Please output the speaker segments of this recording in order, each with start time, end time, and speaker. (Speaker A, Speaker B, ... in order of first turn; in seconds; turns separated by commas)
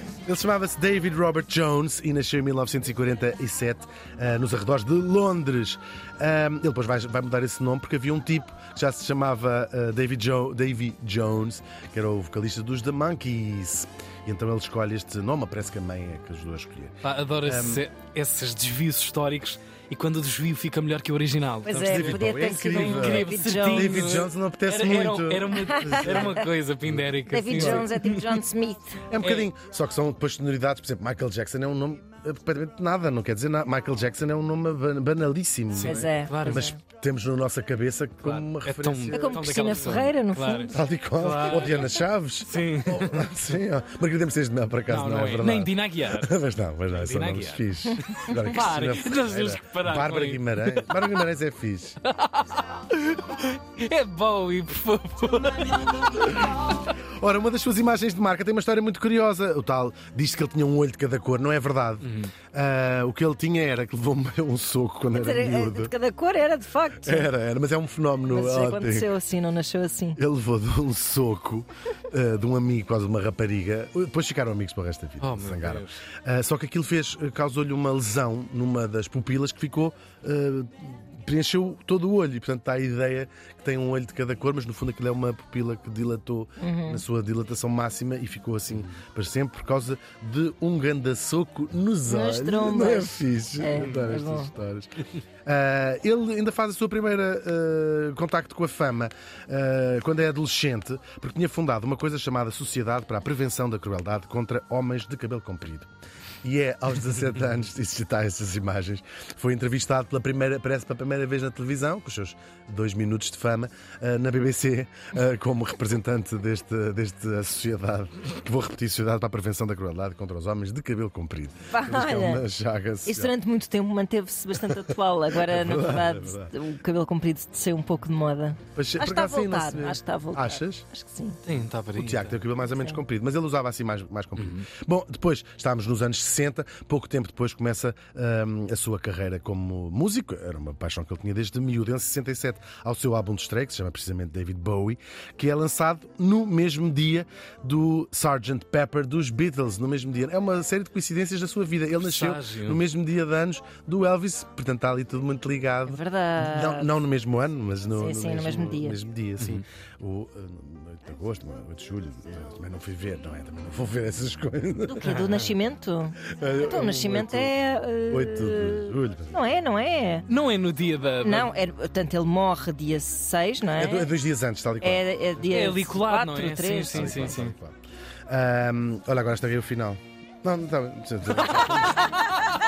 Speaker A: 0.2-17.8, Speaker B: 17.0-28.4, Speaker C: 21.6-24.3, Speaker A: 21.7-27.9, Speaker C: 25.5-26.5, Speaker C: 27.3-29.0, Speaker A: 29.1-40.0, Speaker B: 29.2-29.5, Speaker B: 35.7-36.7, Speaker C: 35.8-36.8, Speaker B: 38.2-43.3, Speaker C: 39.1-40.8, Speaker A: 40.7-52.0, Speaker B: 44.9-46.3, Speaker B: 46.9-51.3, Speaker B: 52.0-56.2, Speaker A: 56.4-65.9, Speaker B: 62.0-62.3, Speaker C: 65.1-67.3, Speaker A: 67.0-69.1, Speaker C: 68.3-70.2, Speaker A: 70.2-105.9, Speaker B: 75.2-76.0, Speaker C: 86.6-87.0, Speaker C: 92.1-94.5, Speaker B: 93.8-94.0, Speaker A: 106.4-123.3, Speaker C: 121.7-122.4, Speaker C: 123.0-131.4, Speaker A: 125.4-126.5, Speaker A: 128.8-130.8, Speaker B: 131.4-132.4, Speaker A: 131.9-165.2, Speaker C: 132.7-133.0, Speaker B: 134.4-134.7, Speaker B: 152.0-152.8, Speaker C: 155.8-156.9, Speaker C: 157.9-159.0, Speaker C: 164.8-170.3, Speaker B: 165.0-165.5, Speaker A: 166.3-167.5, Speaker A: 168.1-169.4, Speaker B: 170.3-171.5, Speaker C: 171.2-174.1, Speaker A: 173.8-175.0, Speaker C: 174.8-177.4, Speaker B: 175.4-177.5, Speaker A: 176.9-182.1